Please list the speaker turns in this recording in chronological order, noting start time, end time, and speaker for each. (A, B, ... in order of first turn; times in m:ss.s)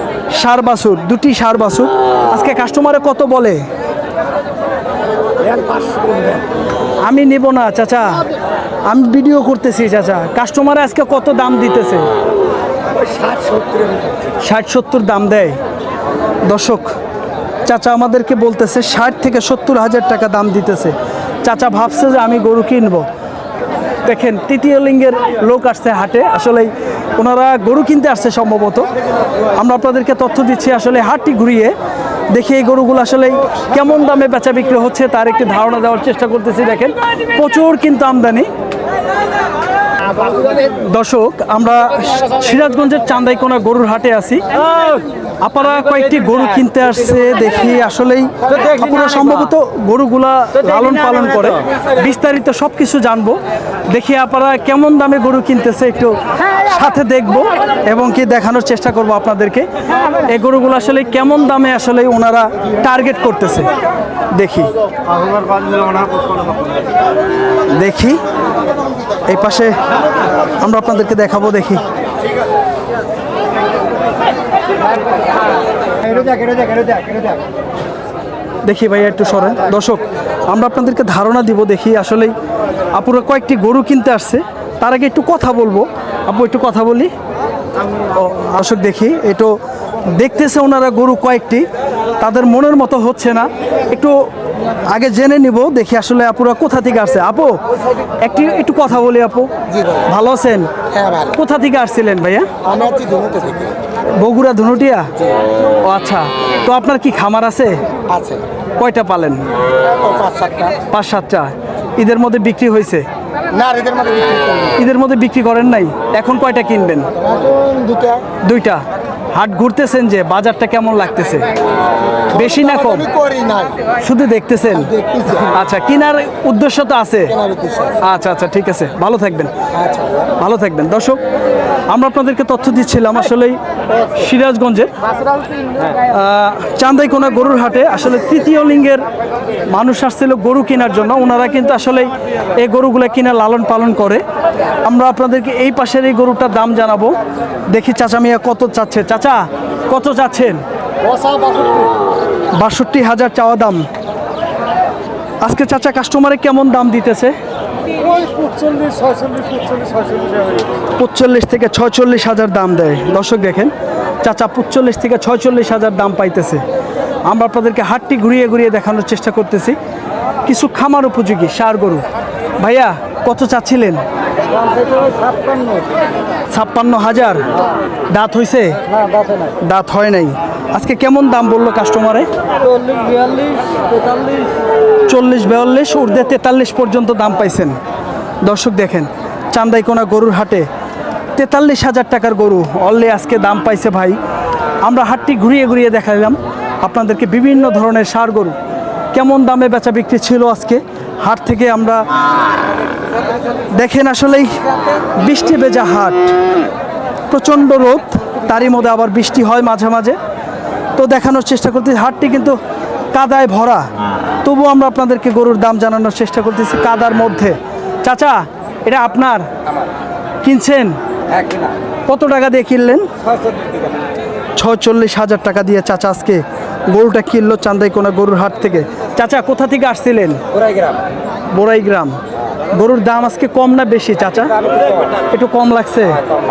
0:00.3-0:03.6 A
0:05.5-0:06.4 B
0:07.0-0:08.2 A
0:08.9-0:12.1 A
0:13.2-0:13.9 B
0:14.4-0:15.6 A
0:16.5-0:16.9 A
0:17.7-0:23.1 A
0:24.0-0:28.9 A
0:29.6-0:31.8 A
0:32.3-0:38.5 A
0:40.6-1:03.7 A
1:04.3-1:04.7 A
1:07.7-1:08.2 A
1:09.3-1:09.8 A
1:10.6-1:11.8 A
1:16.4-1:17.1 B
1:18.6-1:22.3 A
1:22.9-1:27.1 A
1:28.1-1:31.7 A
1:32.2-1:34.3 A
1:34.9-1:37.6 A
1:38.2-1:42.5 A
1:42.7-1:43.7 B
1:44.2-1:45.1 A
1:45.8-1:47.8 A
1:48.8-1:49.5 A
1:50.0-1:50.7 B
1:50.9-1:53.1 A
1:53.5-1:54.6 B
1:54.7-1:57.1 A
1:57.5-1:58.2 B
1:58.4-2:01.5 A
2:02.3-2:03.1 A
2:03.2-2:03.7 B
2:04.0-2:07.5 A
2:07.5-2:07.8 B
2:08.0-2:09.5 A
2:10.4-2:11.2 A
2:11.9-2:14.9 A
2:16.0-2:19.1 A
2:19.7-2:24.2 A
2:24.8-2:27.2 A
2:27.7-2:30.6 A
2:31.2-2:31.7 B
2:32.6-2:33.8 A
2:35.4-2:37.4 A
2:38.1-2:40.6 B
2:41.0-2:46.6 A
2:47.3-2:49.8 A
2:50.4-2:52.0 A
2:52.6-2:54.0 A
2:54.7-2:55.8 B
2:56.5-2:57.5 A
2:58.1-2:58.8 A
2:59.6-3:02.3 A
3:02.7-3:04.4 B
3:05.1-3:07.8 A
3:08.4-3:10.7 A
3:11.4-3:14.2 A
3:14.8-3:18.6 A
3:19.1-3:22.0 A
3:23.7-3:24.6 A
3:25.1-3:26.4 A
3:27.3-3:30.2 A
3:31.0-3:32.6 A
3:33.1-3:33.9 A
3:34.4-3:39.5 A
3:40.4-3:41.0 A
3:42.1-3:43.1 A
3:44.6-3:50.4 A
3:51.5-3:52.2 A
3:52.7-3:54.6 A
3:55.3-3:56.2 A